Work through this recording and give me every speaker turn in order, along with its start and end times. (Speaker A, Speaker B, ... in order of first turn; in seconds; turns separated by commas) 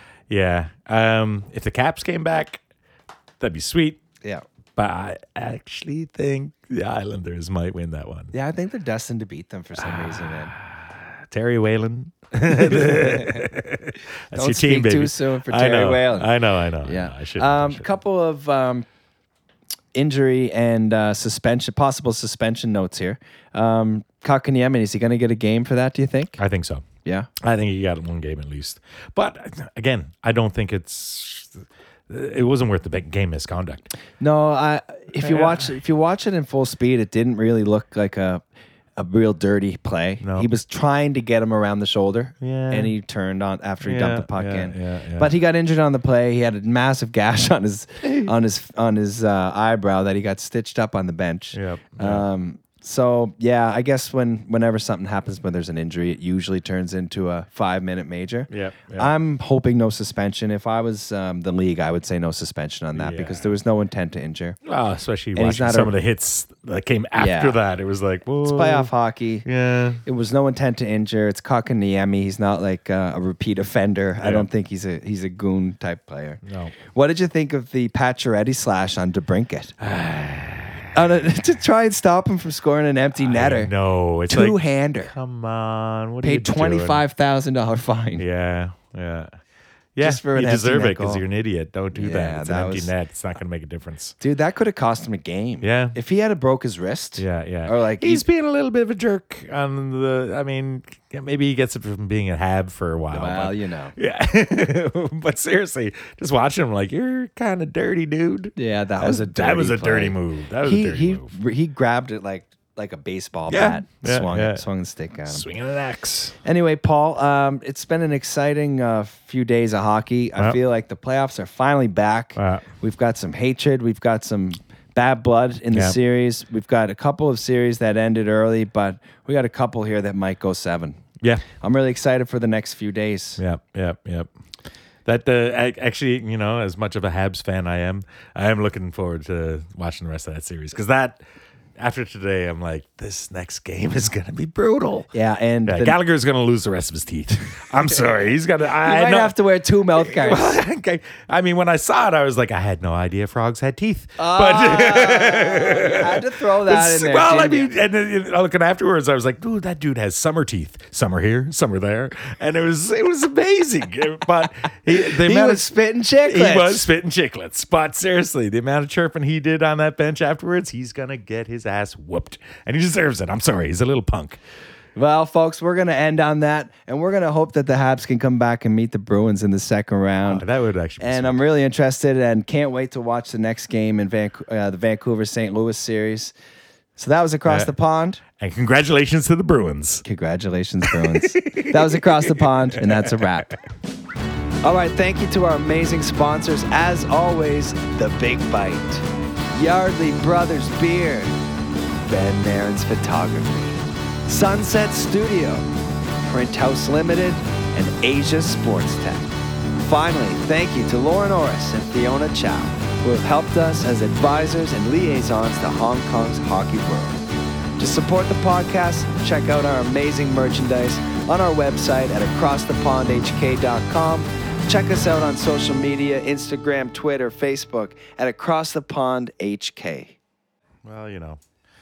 Speaker A: 0.3-2.6, Speaker A: 3.4-4.0, Speaker A: 4.8-8.3, Speaker B: 8.3-10.5, Speaker A: 9.8-17.8, Speaker B: 12.5-13.5, Speaker B: 14.3-18.8, Speaker B: 19.9-26.4, Speaker A: 26.4-26.9, Speaker A: 27.4-33.9, Speaker B: 34.2-38.4, Speaker A: 35.2-35.7, Speaker B: 39.0-64.6, Speaker A: 40.2-40.5, Speaker A: 42.4-42.9, Speaker A: 43.8-45.3, Speaker A: 51.5-52.2, Speaker A: 58.5-59.1, Speaker A: 62.9-63.5, Speaker A: 64.6-68.9, Speaker B: 65.3-65.9, Speaker B: 67.2-67.5, Speaker B: 68.4-69.5, Speaker A: 69.4-70.0, Speaker B: 70.0-79.7, Speaker A: 74.2-74.5, Speaker A: 76.4-76.8, Speaker A: 79.8-80.9, Speaker B: 80.9-83.7, Speaker A: 83.1-87.0, Speaker B: 84.3-85.1, Speaker B: 86.2-88.2, Speaker A: 88.2-89.3, Speaker A: 90.0-94.2, Speaker B: 90.0-91.2, Speaker B: 91.9-92.9, Speaker B: 94.2-98.2, Speaker A: 95.6-96.0, Speaker A: 97.2-111.3, Speaker B: 103.1-104.0, Speaker B: 108.5-115.5, Speaker A: 113.5-114.6, Speaker A: 115.3-116.3, Speaker B: 116.4-131.0, Speaker A: 122.3-122.7, Speaker A: 131.2-131.4, Speaker B: 131.6-133.4, Speaker A: 133.4-134.3, Speaker A: 135.0-141.2, Speaker A: 141.8-145.1, Speaker B: 145.1-146.0, Speaker A: 145.7-149.3, Speaker B: 148.8-150.6, Speaker A: 150.0-165.7, Speaker B: 154.2-157.7, Speaker B: 164.9-166.9, Speaker A: 166.2-174.4, Speaker B: 174.9-180.4, Speaker A: 180.2-181.4, Speaker B: 181.0-186.3, Speaker B: 187.0-188.2, Speaker A: 187.4-187.7, Speaker A: 188.4-190.0, Speaker B: 190.0-193.6, Speaker A: 190.8-193.3, Speaker B: 194.6-201.3, Speaker B: 202.1-205.7, Speaker B: 206.2-217.2, Speaker B: 217.8-230.2, Speaker A: 230.8-231.4